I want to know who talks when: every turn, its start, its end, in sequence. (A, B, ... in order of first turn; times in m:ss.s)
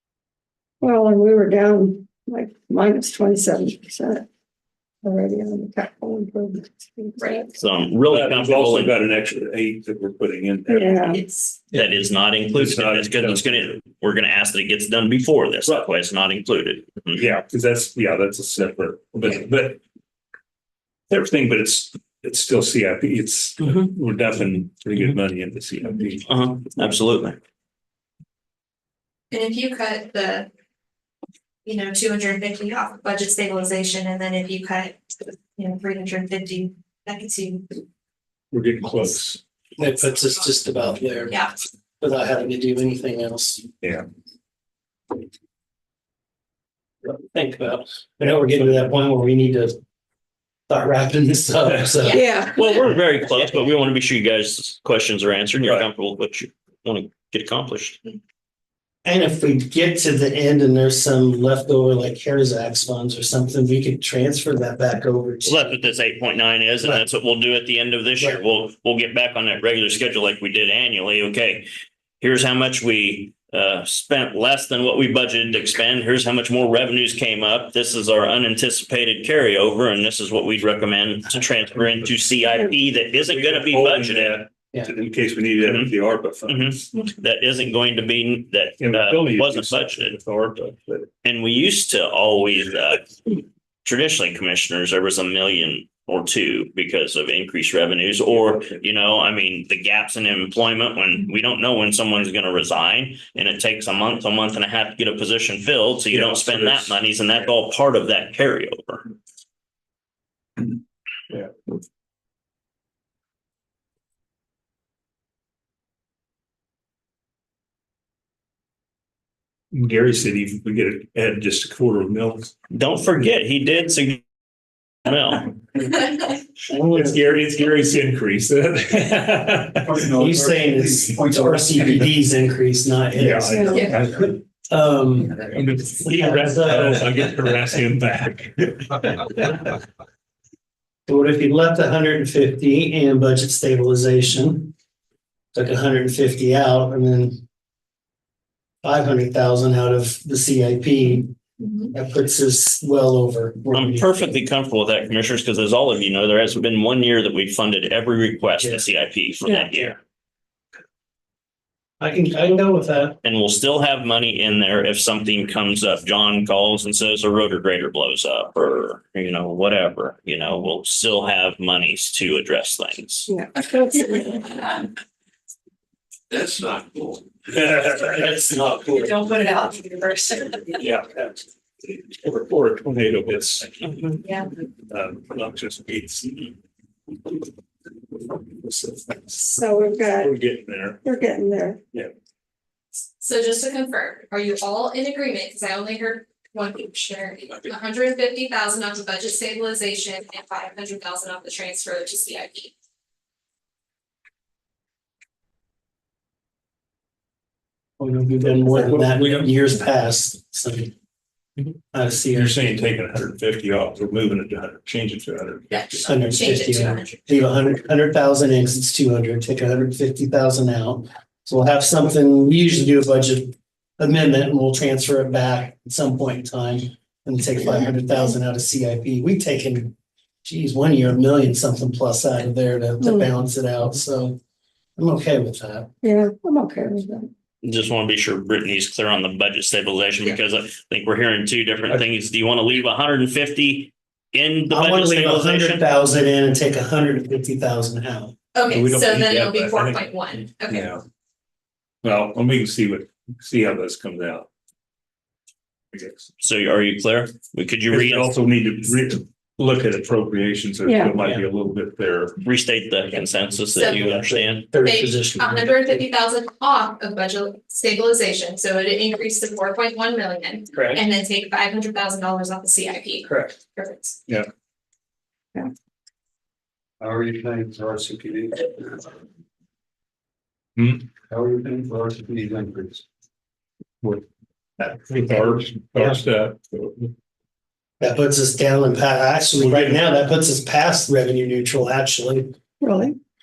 0:00.8-0:04.3 A
0:05.0-0:07.6 A
0:07.2-0:07.5 B
0:07.5-0:09.0 C
0:08.0-0:11.0 D
0:10.7-0:11.2 A
0:11.1-0:11.6 B
0:11.7-0:17.2 C
0:12.5-0:13.7 D
0:17.2-0:19.8 D
0:21.1-0:26.3 D
0:26.3-0:27.4 C
0:29.3-0:30.5 B
0:31.6-0:37.7 B
0:38.5-0:39.4 D
0:39.8-0:41.5 E
0:42.0-0:43.6 E
0:47.1-0:49.8 E
0:50.7-0:52.3 E
0:52.0-0:52.3 B
0:52.1-0:52.6 A
0:52.5-0:58.0 C
0:59.0-1:05.8 E
1:05.5-1:11.7 C
1:12.2-1:24.4 C
1:23.1-1:26.8 D
1:25.6-1:25.9 C
1:26.5-1:30.2 C
1:28.8-1:31.1 D
1:31.2-1:33.1 C
1:33.8-1:49.1 C
1:38.3-1:38.8 D
1:46.1-1:47.0 D
1:59.7-2:02.5 D
2:02.7-2:04.2 C
2:05.0-2:05.5 C
2:06.6-2:10.0 D
2:09.9-2:11.1 F
2:10.0-2:15.5 E
2:13.2-2:14.4 D
2:13.5-2:13.9 A
2:15.5-2:19.2 D
2:16.0-2:17.3 E
2:21.1-2:24.7 E
2:25.5-2:27.4 E
2:28.8-2:31.4 E
2:31.6-2:31.9 B
2:31.9-2:34.4 E
2:33.7-2:40.0 C
2:38.6-2:38.8 E
2:42.0-2:43.2 E
2:43.2-2:53.3 C
2:53.3-2:54.6 A
2:57.8-2:59.1 E
2:58.9-3:00.8 B
3:00.8-3:04.0 D
3:04.2-3:04.5 B
3:04.9-3:06.6 D
3:08.3-3:09.4 D
3:09.4-3:10.4 A
3:10.2-3:11.0 D
3:11.0-3:11.8 A
3:13.2-3:22.7 B
3:28.0-3:30.9 E
3:28.5-3:29.5 D
3:31.9-3:32.7 E
3:32.3-3:36.1 D
3:35.7-3:37.2 B
3:36.0-3:54.4 E
3:53.0-3:53.3 A
3:55.0-3:55.9 E
3:56.0-3:57.3 A
3:57.6-4:05.8 C
4:04.7-4:09.1 E
4:08.6-4:10.9 B
4:09.0-4:10.1 D
4:10.7-4:11.0 D
4:12.0-4:14.5 D
4:15.9-4:16.3 D
4:16.4-4:18.3 C
4:17.9-4:22.4 D
4:20.8-4:21.2 A
4:21.2-4:21.4 E
4:22.4-4:24.7 C
4:23.8-4:24.2 B
4:23.8-4:25.9 E
4:24.8-4:34.2 B
4:37.0-4:39.0 F
4:40.8-4:41.1 D
4:41.1-4:43.0 F
4:44.8-4:47.1 D
4:48.0-4:52.5 E
4:49.6-4:50.1 D
4:52.8-4:53.2 A